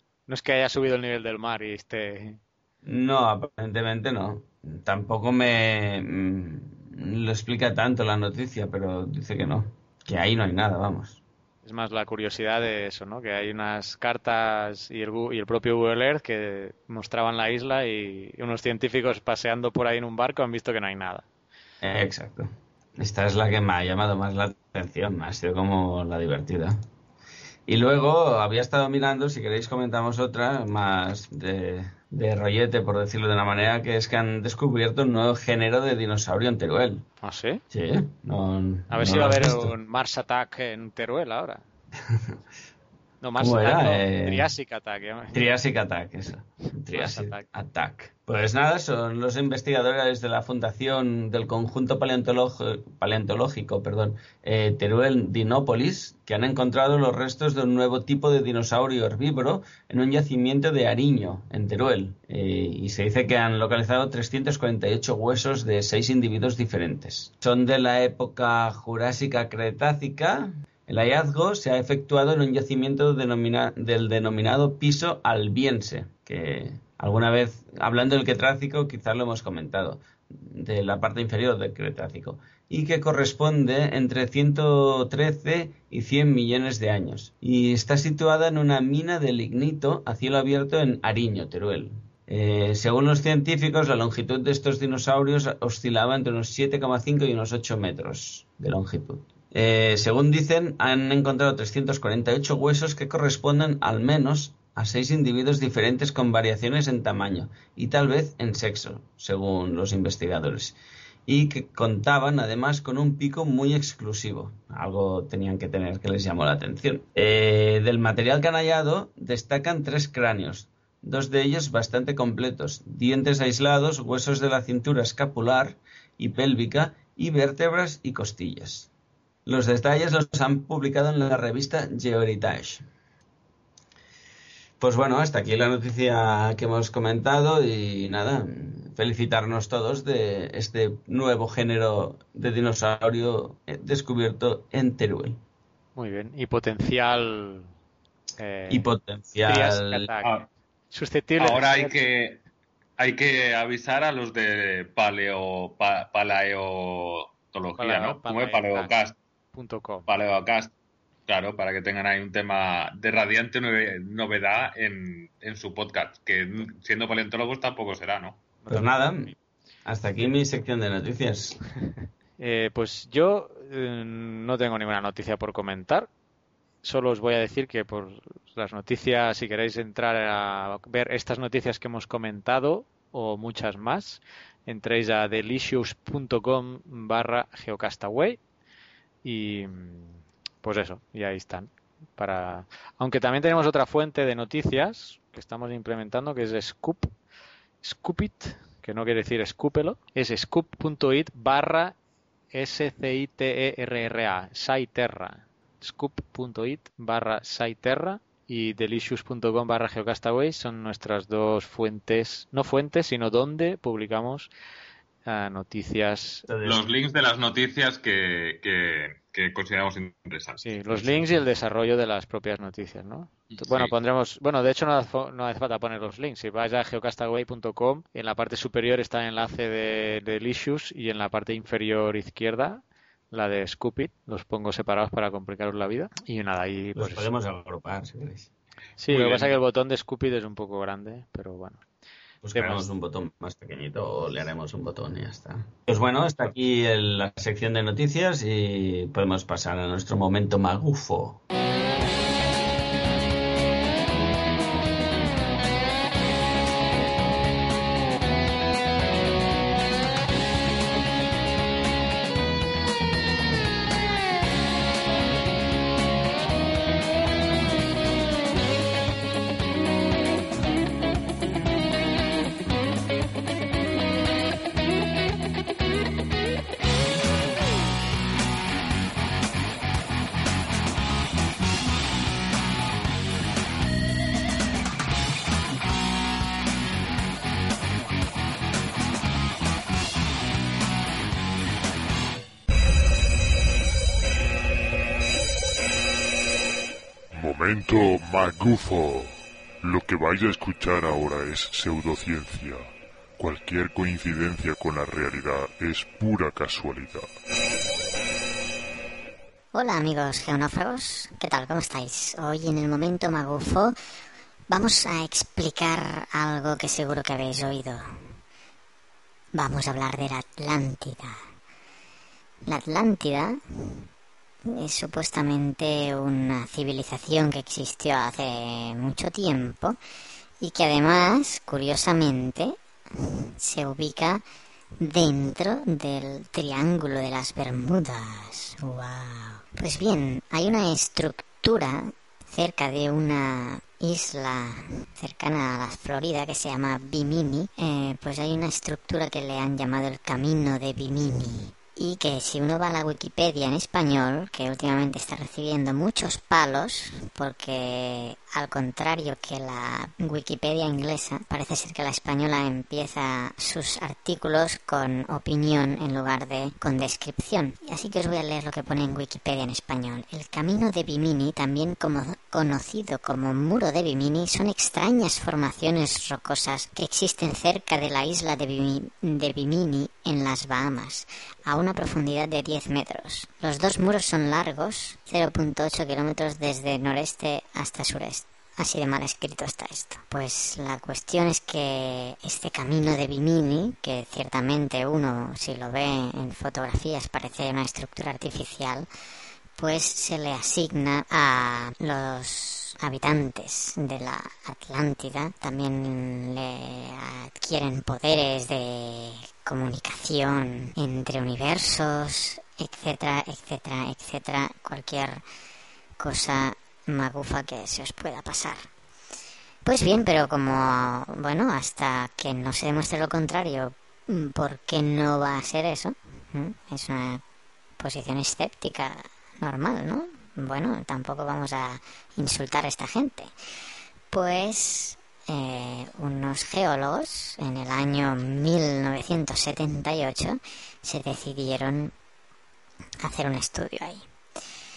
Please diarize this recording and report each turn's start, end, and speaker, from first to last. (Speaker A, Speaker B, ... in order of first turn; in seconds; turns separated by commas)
Speaker A: 0.3-2.4, Speaker B: 2.8-11.2, Speaker A: 11.7-21.2, Speaker B: 21.8-26.8, Speaker B: 27.7-37.0, Speaker A: 37.2-37.6, Speaker B: 37.7-39.7, Speaker A: 38.9-41.6, Speaker B: 42.1-42.4, Speaker A: 43.2-45.5, Speaker B: 43.4-44.5, Speaker B: 45.3-128.9, Speaker A: 46.9-47.5, Speaker B: 129.5-132.8, Speaker B: 134.8-145.4, Speaker A: 146.0-147.7, Speaker A: 148.4-148.9, Speaker B: 148.7-150.1, Speaker A: 149.4-150.4, Speaker C: 150.2-150.5, Speaker A: 150.9-151.9, Speaker C: 151.4-152.4, Speaker C: 153.0-159.2, Speaker A: 157.8-158.9, Speaker A: 159.5-160.1, Speaker C: 160.1-160.7, Speaker C: 161.3-168.4, Speaker B: 168.7-169.3, Speaker B: 169.8-171.6, Speaker A: 172.4-176.1, Speaker A: 176.8-188.4, Speaker A: 189.2-197.1, Speaker A: 197.8-202.0, Speaker A: 202.5-214.5, Speaker A: 215.3-216.5, Speaker B: 216.5-216.8, Speaker C: 216.6-221.3, Speaker A: 220.6-237.3, Speaker C: 223.5-223.9, Speaker B: 236.9-238.5, Speaker A: 239.0-241.8, Speaker C: 239.1-239.6, Speaker B: 242.4-251.4, Speaker A: 242.5-242.9, Speaker D: 297.3-307.3, Speaker E: 309.7-313.9, Speaker E: 314.7-318.0, Speaker E: 319.5-321.4, Speaker E: 322.7-324.0, Speaker E: 324.7-330.0, Speaker E: 330.6-334.4, Speaker E: 335.0-399.1, Speaker E: 399.8-415.4, Speaker E: 416.2-418.9, Speaker E: 419.9-427.4, Speaker E: 428.0-433.5, Speaker E: 434.3-442.1, Speaker E: 443.2-444.2